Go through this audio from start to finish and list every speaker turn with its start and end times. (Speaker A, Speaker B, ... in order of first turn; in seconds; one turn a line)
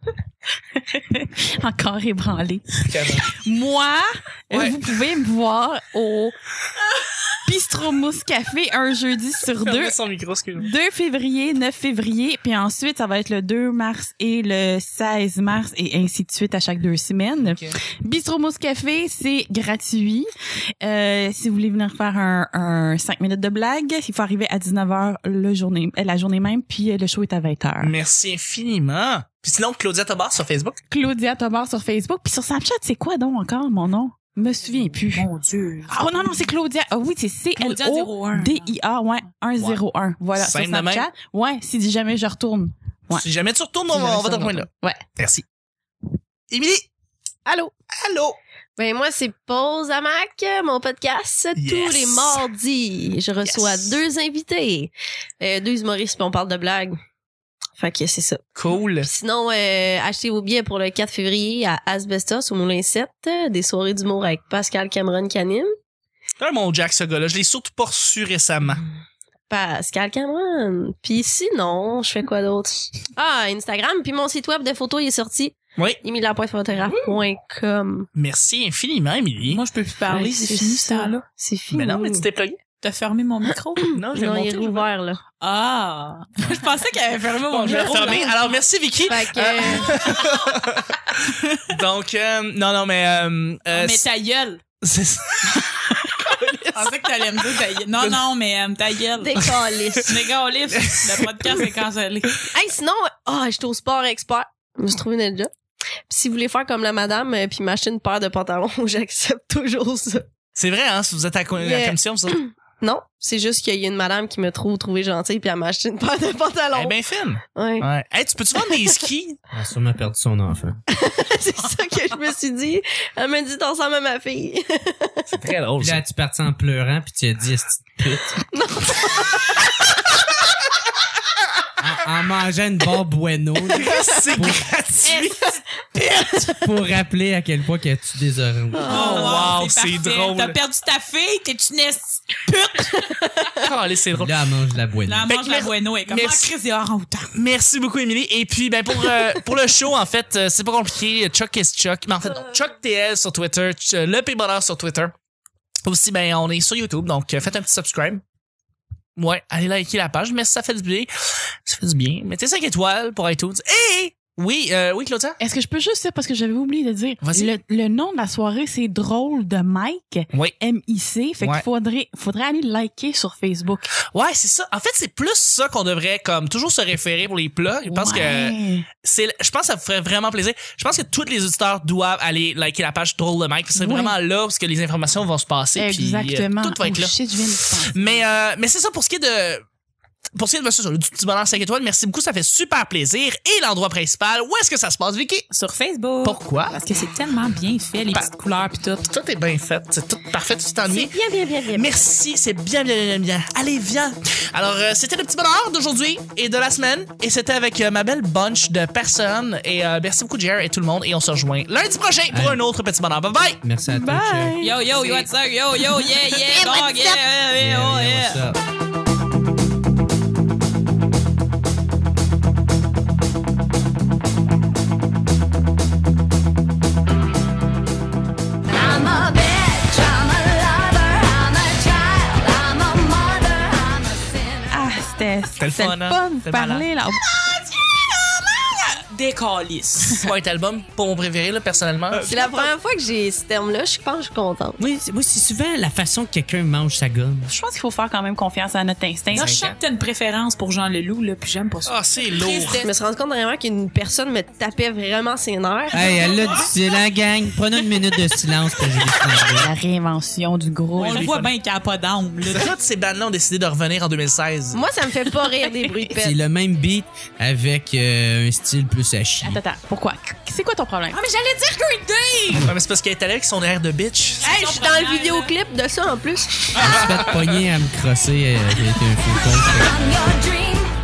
Speaker A: 0.8-6.3
Speaker B: 2.9-3.3
Speaker B: 4.5-4.8
Speaker A: 7.3-10.0
Speaker B: 9.6-10.7
Speaker A: 10.6-20.3
Speaker B: 17.4-17.7
Speaker A: 20.8-27.9
Speaker B: 27.8-30.8
Speaker A: 30.9-35.3
Speaker C: 35.1-36.0
Speaker A: 35.9-43.2
Speaker C: 37.6-38.7
Speaker B: 40.4-41.1
Speaker B: 43.1-45.5
Speaker A: 43.9-45.0
Speaker B: 46.5-46.9
Speaker B: 47.5-48.4
Speaker D: 48.8-57.0
Speaker B: 51.6-52.5
Speaker B: 53.4-54.0
Speaker D: 57.8-65.7
Speaker B: 58.5-59.1
Speaker B: 66.4-68.8
Speaker D: 69.5-78.1
Speaker B: 78.2-79.6
Speaker C: 79.5-81.2
Speaker D: 80.1-82.3
Speaker B: 81.7-82.6
Speaker C: 82.8-83.8
Speaker B: 83.9-84.9
Speaker D: 84.1-85.2
Speaker C: 85.4-88.6
Speaker B: 87.5-91.0
Speaker D: 87.7-88.3
Speaker D: 89.1-90.0
Speaker C: 90.0-90.4
Speaker C: 91.3-91.6
Speaker B: 91.7-94.0
Speaker C: 93.7-94.6
Speaker B: 94.8-97.0
Speaker C: 96.7-99.4
Speaker D: 99.2-100.2
Speaker C: 100.0-102.5
Speaker B: 100.8-101.6
Speaker D: 102.5-105.5
Speaker D: 106.1-110.3
Speaker B: 110.5-112.4
Speaker D: 111.6-117.0
Speaker B: 116.7-119.4
Speaker D: 117.5-117.8
Speaker E: 119.5-120.8
Speaker D: 120.9-125.3
Speaker B: 125.3-126.0
Speaker E: 125.8-128.4
Speaker D: 128.5-129.5
Speaker E: 131.8-134.7
Speaker B: 133.7-135.6
Speaker C: 135.1-135.6
Speaker E: 136.0-139.3
Speaker D: 138.7-139.5
Speaker C: 138.9-143.6
Speaker B: 138.9-140.6
Speaker B: 143.6-144.4
Speaker E: 144.1-145.3
Speaker C: 145.1-147.3
Speaker B: 145.3-146.5
Speaker B: 147.3-155.1
Speaker B: 155.8-158.2
Speaker B: 159.2-161.1
Speaker B: 161.7-165.4
Speaker A: 165.4-174.0
Speaker B: 167.2-167.6
Speaker B: 171.4-171.7
Speaker B: 174.1-187.2
Speaker A: 177.8-178.9
Speaker A: 183.8-184.1
Speaker A: 185.8-188.2
Speaker B: 187.8-189.6
Speaker B: 190.3-195.5
Speaker C: 195.5-199.1
Speaker B: 196.2-196.8
Speaker B: 199.1-201.1
Speaker D: 200.8-202.1
Speaker B: 201.7-213.6
Speaker E: 212.3-212.6
Speaker E: 213.6-214.6
Speaker A: 213.9-215.2
Speaker C: 214.6-218.4
Speaker E: 217.5-218.6
Speaker F: 228.7-234.7
Speaker A: 234.7-237.3
Speaker B: 235.6-236.9
Speaker C: 237.3-240.2
Speaker B: 240.2-242.7
Speaker D: 242.2-244.8
Speaker E: 244.8-247.5
Speaker A: 247.5-249.6
Speaker B: 249.3-249.8
Speaker C: 249.3-252.9
Speaker B: 251.9-252.8
Speaker D: 252.5-256.0
Speaker E: 255.9-259.7
Speaker A: 259.6-261.3
Speaker B: 261.0-261.5
Speaker C: 261.0-262.7
Speaker B: 262.5-264.8
Speaker D: 264.7-266.4
Speaker E: 266.1-269.6
Speaker A: 269.4-271.2
Speaker C: 271.1-272.7
Speaker B: 272.7-274.4
Speaker C: 274.4-275.6
Speaker D: 274.4-276.7
Speaker B: 276.8-277.5
Speaker E: 276.8-280.0
Speaker F: 279.6-280.9